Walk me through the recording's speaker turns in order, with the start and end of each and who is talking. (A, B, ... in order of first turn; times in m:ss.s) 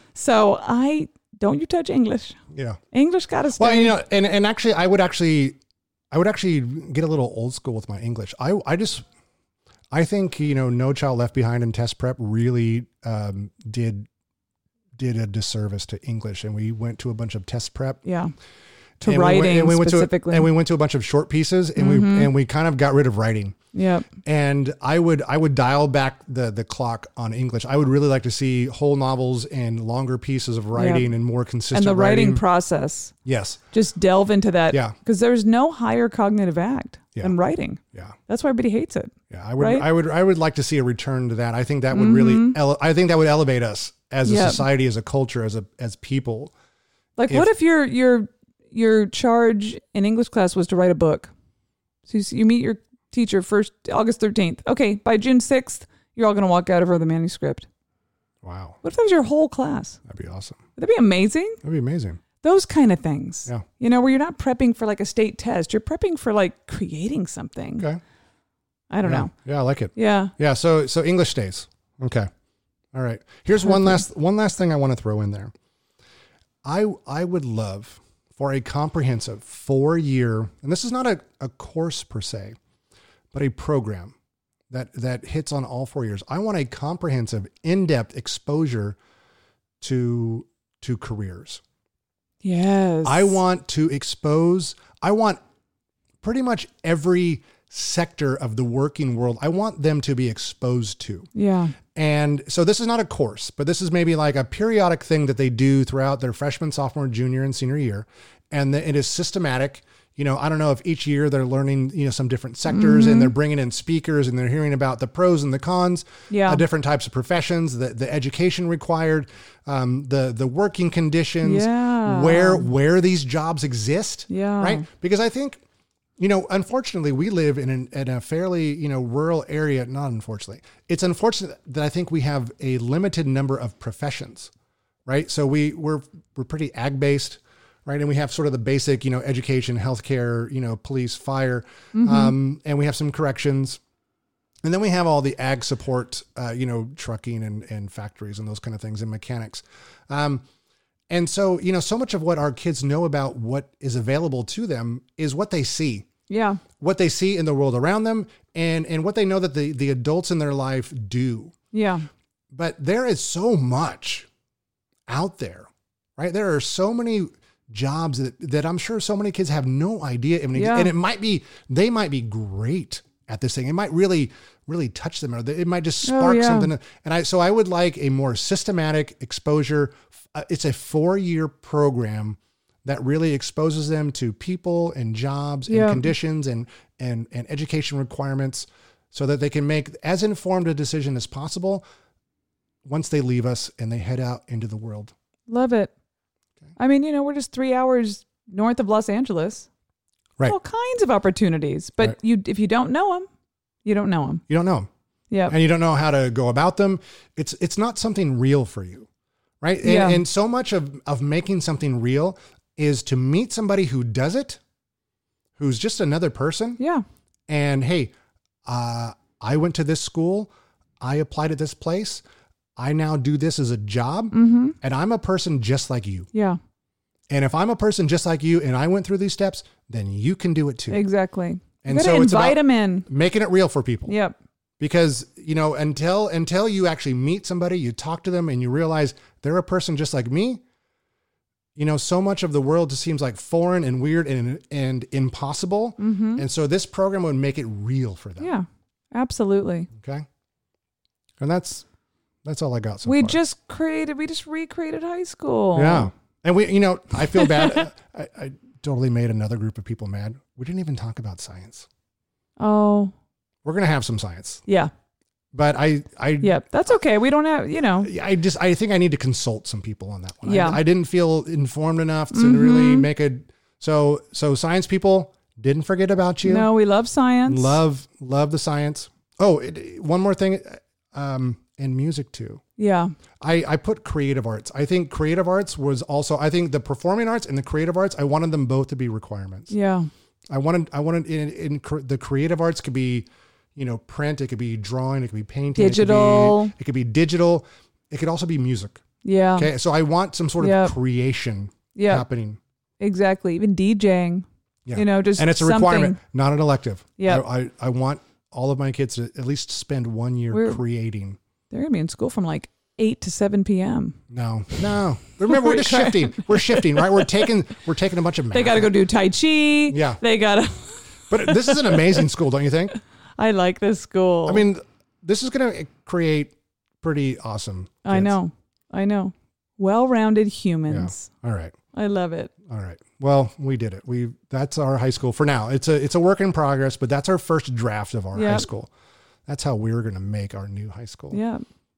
0:00.1-0:02.4 A
0:02.5-0:02.8 B
0:02.9-0:03.9 A
0:03.6-0:05.6 B
0:06.1-0:09.0 B
0:09.9-0:14.1 B
0:15.0-0:18.0 B
0:18.0-0:18.3 A
0:19.0-0:23.6 B
0:19.0-0:20.5 A
0:21.8-0:22.3 A
0:23.7-0:24.1 A
0:24.2-0:32.4 B
0:30.7-0:31.1 A
0:31.7-0:33.1 A
0:33.2-0:33.6 B
0:33.7-0:39.8 A
0:39.3-0:46.5 B
0:41.9-0:42.6 A
0:44.2-0:44.6 A
0:47.2-0:51.3 A
0:52.1-0:57.7 A
0:58.4-0:58.8 B
0:58.8-1:00.0 A
1:00.1-1:00.6 B
1:00.8-1:01.6 A
1:01.6-1:02.2 B
1:02.4-1:07.9 A
1:08.9-1:09.3 A
1:09.0-1:12.3 B
1:10.0-1:10.3 A
1:12.9-1:15.5 B
1:13.6-1:14.0 A
1:16.6-1:22.6 B
1:23.3-1:24.1 B
1:24.7-1:29.0 B
1:29.8-1:31.6 B
1:32.4-1:33.4 A
1:33.0-1:35.4 B
1:36.2-1:41.3 B
1:41.3-1:41.7 A
1:41.9-2:05.6 B
1:52.7-1:53.3 A
1:56.3-1:56.6 A
2:01.4-2:02.6 A
2:04.3-2:04.8 A
2:06.2-2:14.5 B
2:15.0-2:23.8 B
2:21.9-2:22.3 A
2:24.6-2:30.4 B
2:31.1-2:36.1 B
2:36.3-2:36.6 A
2:36.8-2:41.5 B
2:41.7-2:42.0 A
2:42.5-2:44.3 B
2:45.1-3:11.8 B
2:50.5-2:50.9 A
2:56.0-2:56.7 A
3:05.7-3:06.1 A
3:12.8-3:15.1 B
3:15.5-3:15.9 A
3:16.8-3:19.7 A
3:20.4-3:23.3 A
3:23.8-3:24.4 A
3:24.5-3:24.9 B
3:25.5-3:29.1 B
3:29.6-3:34.6 B
3:29.8-3:30.2 A
3:35.6-3:36.8 B
3:36.8-3:37.0 A
3:37.5-3:38.1 B
3:38.6-3:42.2 B
3:42.8-3:46.3 B
3:44.3-3:44.7 A
3:46.3-3:46.6 A
3:47.3-3:51.0 B
3:50.9-3:53.1 A
3:51.8-3:54.1 B
3:54.1-3:54.4 A
3:54.8-4:00.6 B
4:01.8-4:08.5 B
4:06.0-4:06.4 A
4:08.4-4:09.9 A
4:09.9-4:10.3 B
4:11.4-4:11.8 B
4:12.4-4:13.4 B
4:13.0-4:16.1 A
4:15.7-4:21.9 B
4:17.3-4:17.8 A
4:22.6-4:23.1 A
4:23.6-4:24.6 B
4:24.6-4:24.9 A
4:25.5-4:27.0 B
4:26.4-4:28.1 A
4:28.0-4:36.7 B
4:30.4-4:30.8 A
4:32.3-4:33.1 A
4:36.4-4:37.8 A
4:37.5-4:42.6 B
4:42.8-4:43.1 A
4:43.4-4:49.7 B
4:49.7-4:50.1 A
4:50.5-4:59.0 B
4:55.7-4:56.7 A
4:59.2-4:59.7 A
4:59.6-5:02.6 B
5:00.6-5:00.9 A
5:01.9-5:02.2 A
5:03.0-5:06.2 A
5:04.8-5:11.4 B
5:07.2-5:07.4 A
5:10.5-5:10.8 A
5:11.7-5:14.2 A
5:14.3-5:18.9 B
5:15.5-5:17.3 A
5:18.5-5:22.2 A
5:19.9-5:20.2 B
5:21.3-5:23.0 B
5:23.4-5:24.6 A
5:24.4-5:28.4 B
5:28.0-5:31.3 A
5:30.9-5:31.8 B
5:31.9-5:32.5 A
5:32.6-5:38.9 B
5:38.3-5:38.7 A
5:39.5-5:41.4 B
5:41.3-5:41.6 A